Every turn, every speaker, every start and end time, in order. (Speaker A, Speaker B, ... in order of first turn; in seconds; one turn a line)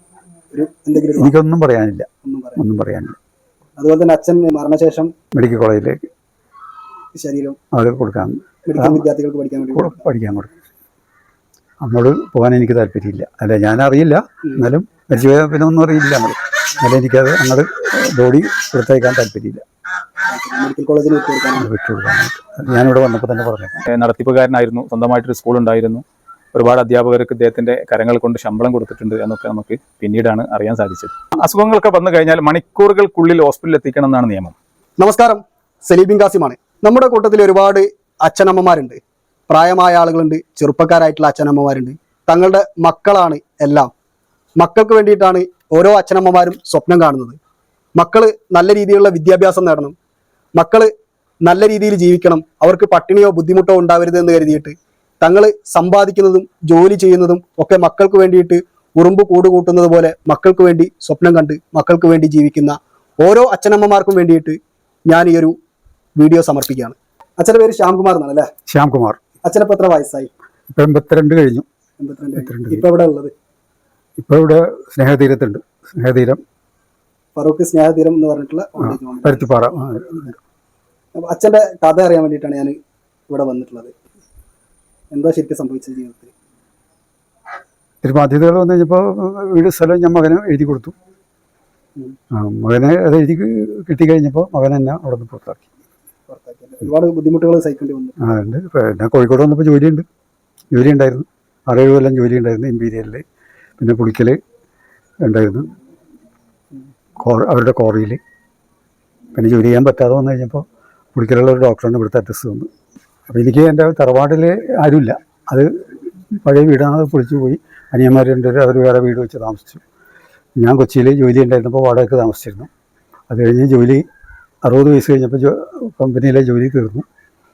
Speaker A: 0.5-1.3
Speaker B: 1.1-3.2
Speaker A: 2.2-2.6
Speaker A: 3.8-5.1
Speaker B: 5.3-6.0
Speaker A: 7.1-7.5
Speaker B: 7.7-9.1
Speaker A: 8.7-10.0
Speaker B: 9.7-10.5
Speaker B: 11.8-19.6
Speaker A: 20.3-21.7
Speaker B: 21.6-23.8
Speaker C: 23.9-34.5
Speaker A: 35.0-43.9
Speaker A: 44.6-47.4
Speaker A: 48.0-49.9
Speaker A: 50.5-50.9
Speaker A: 51.4-64.6
Speaker A: 65.1-65.5
Speaker A: 66.2-68.5
Speaker B: 68.7-69.2
Speaker A: 69.4-70.3
Speaker B: 70.7-71.6
Speaker A: 72.0-73.3
Speaker B: 72.4-72.8
Speaker B: 74.2-76.4
Speaker A: 77.3-79.5
Speaker B: 78.8-80.3
Speaker A: 81.2-82.8
Speaker A: 83.3-83.9
Speaker A: 85.1-86.3
Speaker B: 88.0-90.9
Speaker B: 92.3-95.7
Speaker A: 96.3-98.2
Speaker B: 98.2-100.0
Speaker B: 100.7-103.2
Speaker B: 103.8-104.4
Speaker B: 105.2-105.7
Speaker B: 107.2-108.2
Speaker B: 109.3-112.7
Speaker B: 113.3-119.8
Speaker B: 120.6-122.7
Speaker B: 123.3-124.0
Speaker B: 124.6-127.0